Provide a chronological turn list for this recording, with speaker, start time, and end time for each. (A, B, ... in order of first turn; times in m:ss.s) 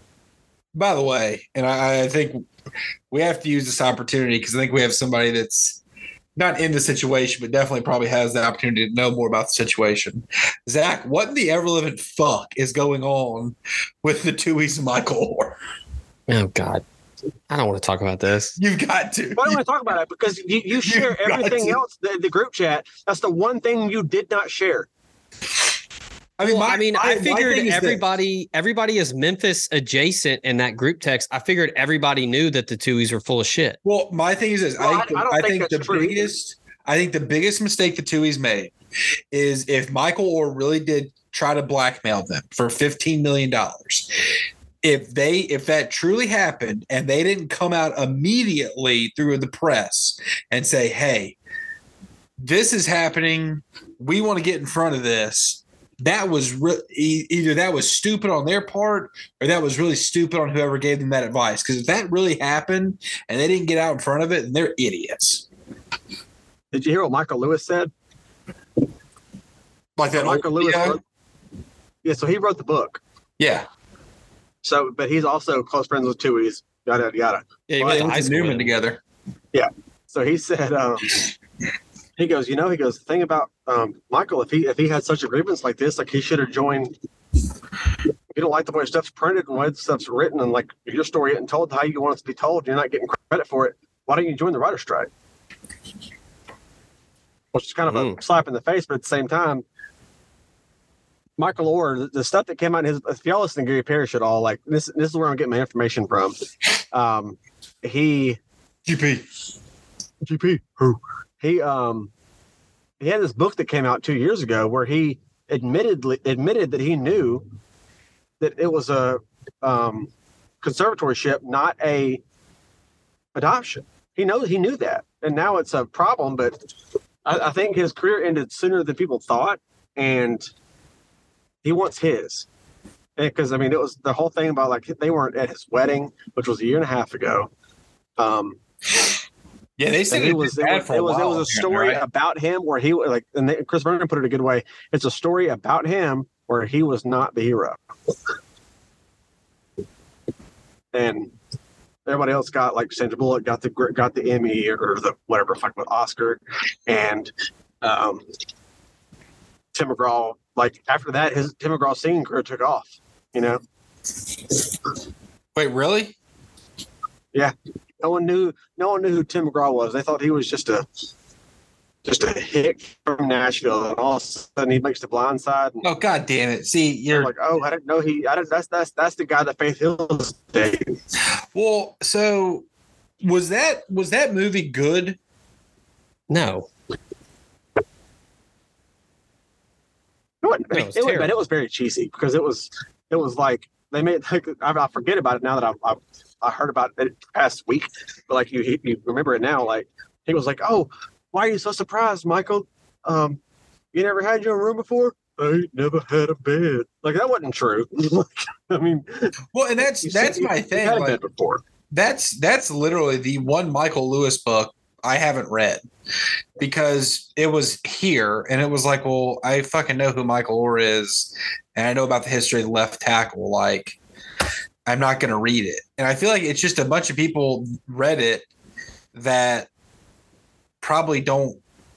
0:00.7-0:02.5 A
0:03.1-0:05.8 A
0:06.4-0:15.6 A
0:16.3-0:16.8 B
0:17.5-0:18.6 B
0:18.6-0:19.6 A
0:19.4-0:24.9 C
0:20.8-0:21.8 A
0:26.4-0:28.0 A
0:26.4-0:33.8 B
0:33.8-0:38.7 A
0:34.8-0:36.3 C
0:39.3-0:44.1 A
0:44.8-0:51.4 A
0:52.4-1:05.4 A
1:06.7-1:07.9 C
1:10.0-1:11.0 A
1:10.1-1:11.0 C
1:12.0-1:13.0 C
1:13.4-1:13.7 A
1:14.6-1:18.1 C
1:17.7-1:18.8 B
1:17.8-1:19.0 A
1:19.5-1:21.2 C
1:22.2-1:26.9 C
1:28.3-1:35.1 C
1:37.5-1:39.6 C
1:37.9-1:38.2 B
1:41.4-1:46.4 C
1:46.9-1:48.4 C
1:48.8-1:49.2 A
1:50.2-1:52.1 C
1:53.0-1:57.4 C
1:58.4-2:00.1 C
2:00.6-2:02.2 C
2:03.3-2:06.6 C
2:07.2-2:10.4 C
2:11.6-2:12.5 C
2:13.2-2:17.5 C
2:18.2-2:18.6 C
2:19.8-2:22.0 A
2:20.1-2:27.8 C
2:30.9-2:31.3 C
2:32.0-2:37.3 C
2:37.8-2:38.2 C
2:39.7-2:43.6 C
2:45.5-2:46.2 A
2:47.3-2:50.8 C
2:52.0-2:55.8 C
2:55.8-2:57.3 A
2:57.1-3:01.0 C
3:01.5-3:02.6 A
3:03.2-3:05.2 A
3:06.3-3:06.7 B
3:10.4-3:23.4 C
3:10.7-3:11.3 B
3:23.9-3:29.3 C
3:29.5-3:31.2 A
3:30.0-3:31.6 C
3:31.9-3:35.8 A
3:36.6-3:44.0 A
3:44.8-3:48.5 A
3:49.1-3:49.7 A
3:50.8-3:51.6 A